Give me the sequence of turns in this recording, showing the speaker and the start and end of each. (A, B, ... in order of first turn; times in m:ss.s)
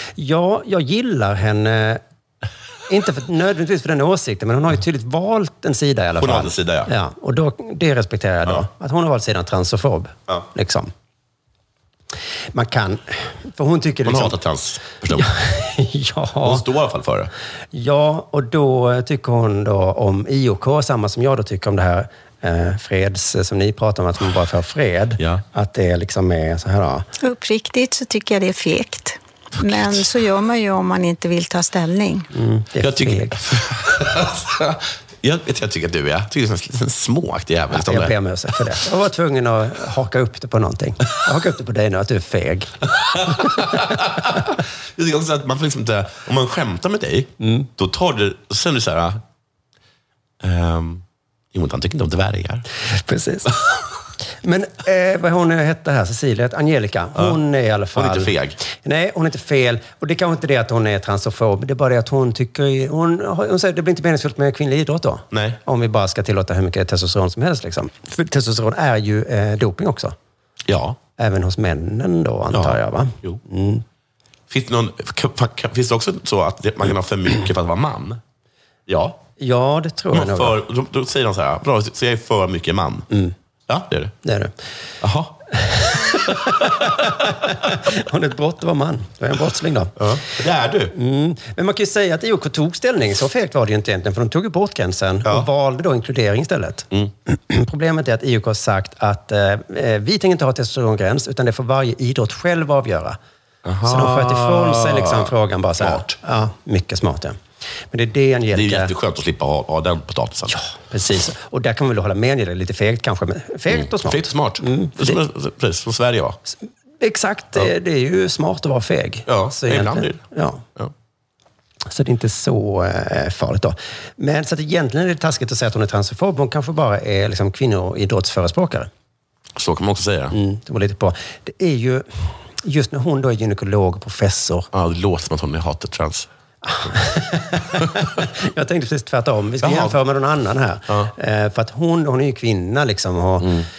0:00.2-0:02.0 A
0:02.9-0:10.9 A
0:06.2-0:06.9 B
0:12.5-0:14.4 A
0:14.0-0:15.3 B
0:15.1-0:16.6 A
0:16.4-0:17.3 B
0:17.7-0:27.1 A
0:27.2-0:32.3 C
0:32.3-0:33.4 A
0:32.8-0:38.2 B
0:37.7-0:42.7 A
0:43.2-0:49.2 B
0:43.4-0:43.7 A
0:47.4-0:47.7 A
0:50.4-0:52.7 B
0:52.9-0:53.6 A
0:54.4-1:10.2 A
0:58.0-0:58.6 B
1:05.3-1:05.6 B
1:10.7-1:11.0 B
1:11.2-1:13.8 A
1:12.5-1:13.4 B
1:14.5-1:18.2 B
1:18.9-1:19.2 B
1:19.4-1:20.6 A
1:20.1-1:23.1 B
1:23.7-1:24.1 B
1:24.2-1:24.5 A
1:25.0-1:25.4 B
1:25.7-1:30.1 A
1:26.1-1:26.9 B
1:30.0-1:30.9 B
1:30.9-1:43.2 A
1:43.6-1:46.2 B
1:43.8-1:47.4 A
1:47.9-1:48.9 A
1:48.5-1:50.6 B
1:50.5-1:55.2 A
1:53.7-1:56.4 B
1:57.0-2:00.6 A
1:59.3-2:00.2 B
2:01.9-2:08.9 A
2:09.6-2:10.4 B
2:10.3-2:14.7 A
2:14.7-2:16.3 B
2:16.7-2:23.6 A
2:17.8-2:18.1 B
2:19.6-2:20.0 B
2:20.9-2:21.1 B
2:23.4-2:23.7 B